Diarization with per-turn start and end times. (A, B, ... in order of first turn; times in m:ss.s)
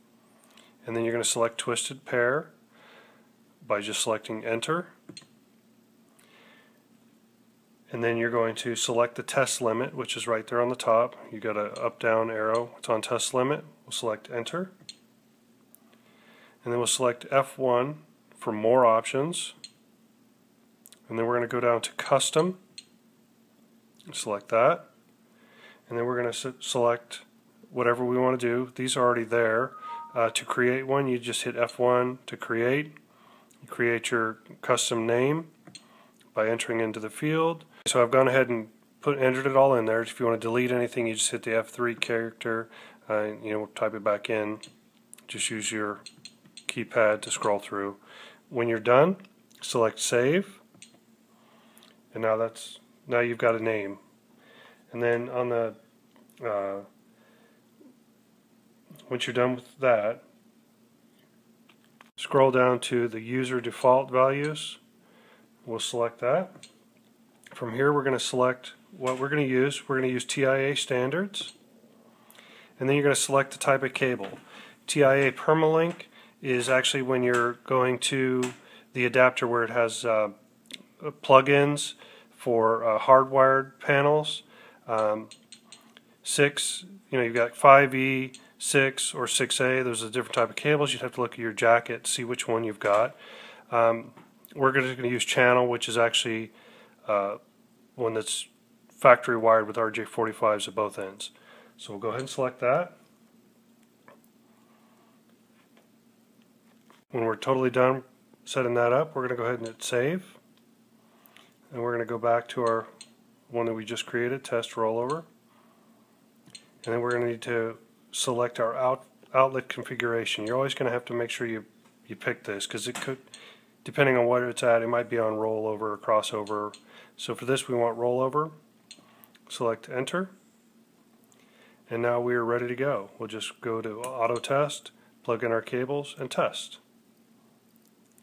0:00.8-0:02.5 A
0:03.6-0:04.9 A
0:07.9-0:14.7 A
0:16.6-0:19.6 A
0:21.1-0:22.6 A
0:24.1-0:24.9 A
0:25.9-0:33.0 A
0:33.6-0:35.5 A
0:36.3-0:44.6 A
0:45.3-0:46.0 A
0:46.7-0:48.0 A
0:48.5-0:50.6 A
0:52.1-0:54.0 A
0:54.9-0:55.8 A
0:56.4-0:56.9 A
0:59.1-1:00.2 A
1:02.2-1:04.8 A
1:05.6-1:06.6 A
1:07.5-1:11.5 A
1:12.8-1:20.3 A
1:21.0-1:25.3 A
1:26.2-1:33.2 A
1:33.7-1:36.5 A
1:37.1-1:37.4 A
1:38.0-1:43.0 A
1:47.1-1:50.4 A
1:51.7-1:52.9 A
1:53.5-1:55.3 A
1:56.8-2:03.2 A
2:03.8-2:08.5 A
2:09.5-2:10.3 A
2:11.9-2:16.8 A